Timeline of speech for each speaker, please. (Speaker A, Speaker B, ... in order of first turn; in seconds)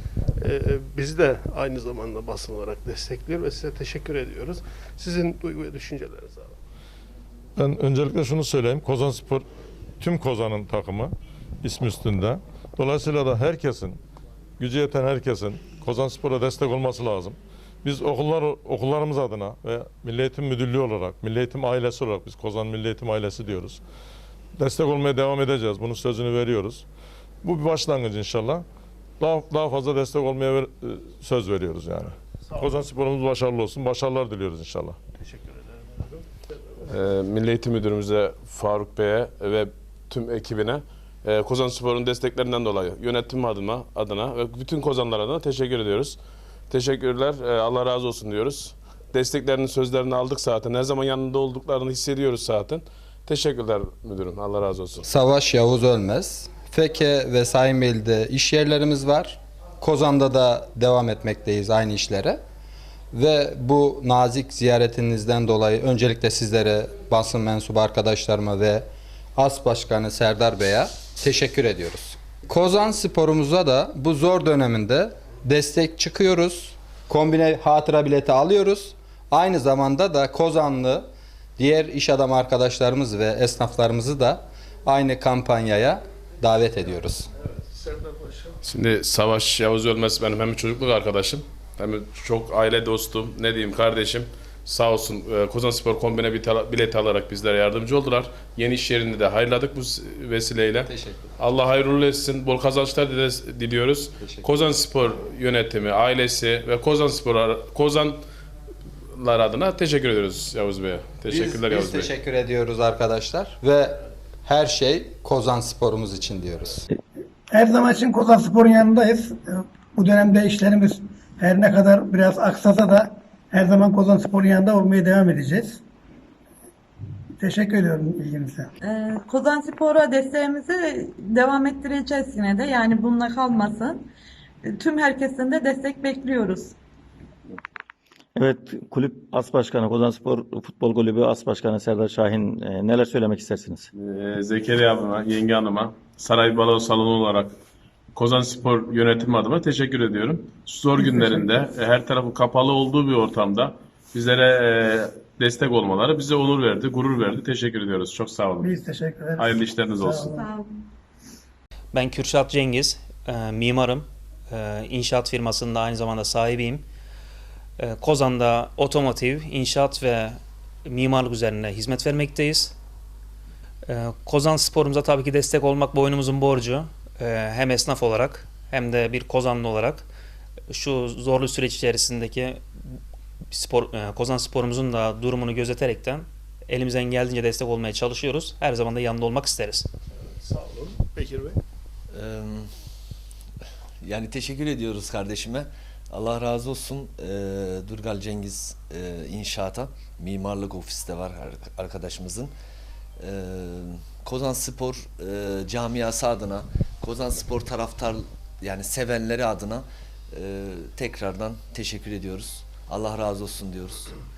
Speaker A: 0.4-6.6, 32.4-32.8, 35.2-36.9, 87.4-88.6, 190.2-191.6
Speaker B: 7.6-9.4, 10.0-14.0, 14.6-23.8, 24.6-26.8, 27.4-28.6, 29.2-35.0
Speaker C: 36.9-46.2, 46.7-55.0, 88.6-108.2, 109.1-112.1, 144.0-147.6, 148.2-158.7, 159.4-160.3
Speaker D: 55.0-62.4, 63.1-81.0, 81.6-87.3, 100.8-101.2, 104.2-104.7, 111.2-116.8
Speaker E: 117.5-125.8, 127.4-128.7, 158.6-160.4
Speaker F: 128.8-134.1, 134.6-136.8, 160.3-160.8
Speaker G: 138.4-143.8
Speaker H: 161.9-166.8, 167.8-172.7, 173.8-180.1, 180.7-182.6, 183.5-189.9
Speaker I: 192.1-192.7, 194.0-202.5, 203.2-214.2